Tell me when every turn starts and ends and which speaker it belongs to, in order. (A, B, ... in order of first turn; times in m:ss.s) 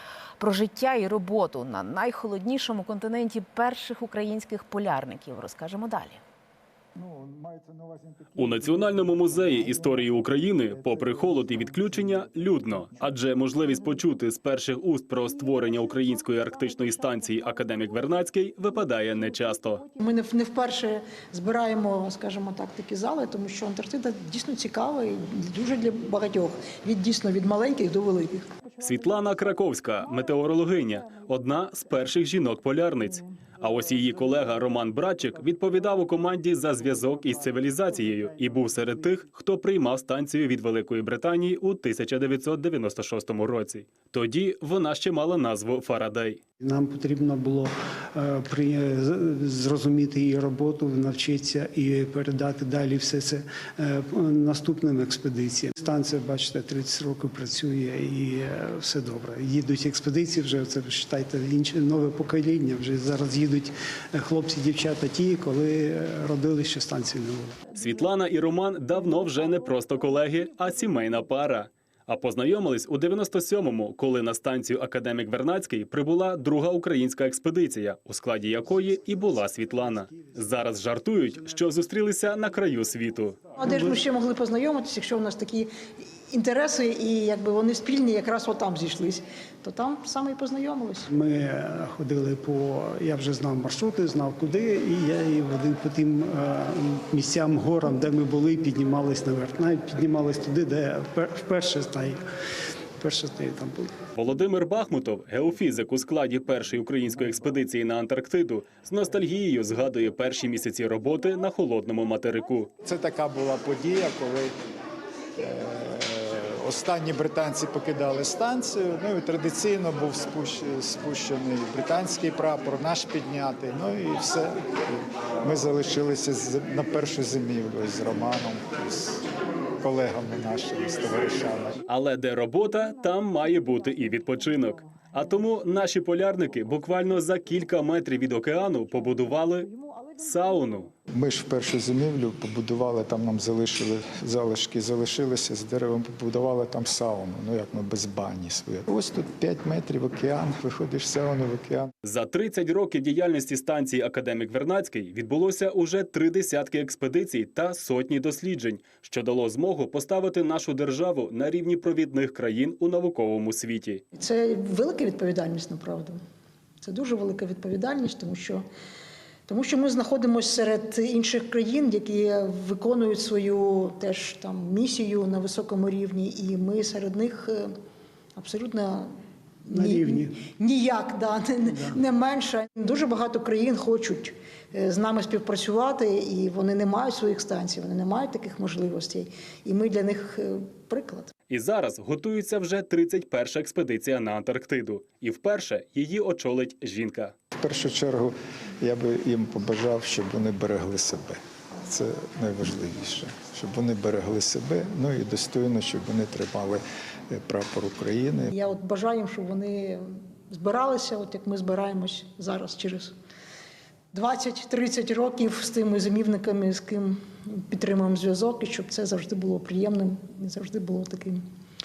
0:00.4-0:06.2 A
0:07.0-0:12.9 B
0:08.4-0:19.8 C
0:20.0-0:28.5 D
0:28.8-0:46.4 C
0:46.6-1:07.8 E
1:07.7-1:23.5 C
1:19.0-1:20.4 E
1:23.6-1:25.7 D
1:23.6-1:24.0 E
1:26.3-1:31.0 D
1:31.0-1:42.2 E
1:43.0-1:43.9 E
1:44.1-1:52.7 C
1:52.8-1:54.5 B
1:55.4-2:09.2 B
2:09.8-2:11.8 B
2:11.9-2:20.9 C
2:21.1-2:31.9 B
2:32.0-2:44.0 C
2:44.1-2:46.2 D
2:46.8-2:48.6 D
2:49.5-2:57.7 D
2:58.4-2:59.1 D
2:59.6-3:11.3 D
2:59.7-3:00.4 E
3:01.6-3:02.0 E
3:11.5-3:17.3 C
3:17.6-3:28.6 B
3:28.5-3:33.1 D
3:34.1-3:41.4 D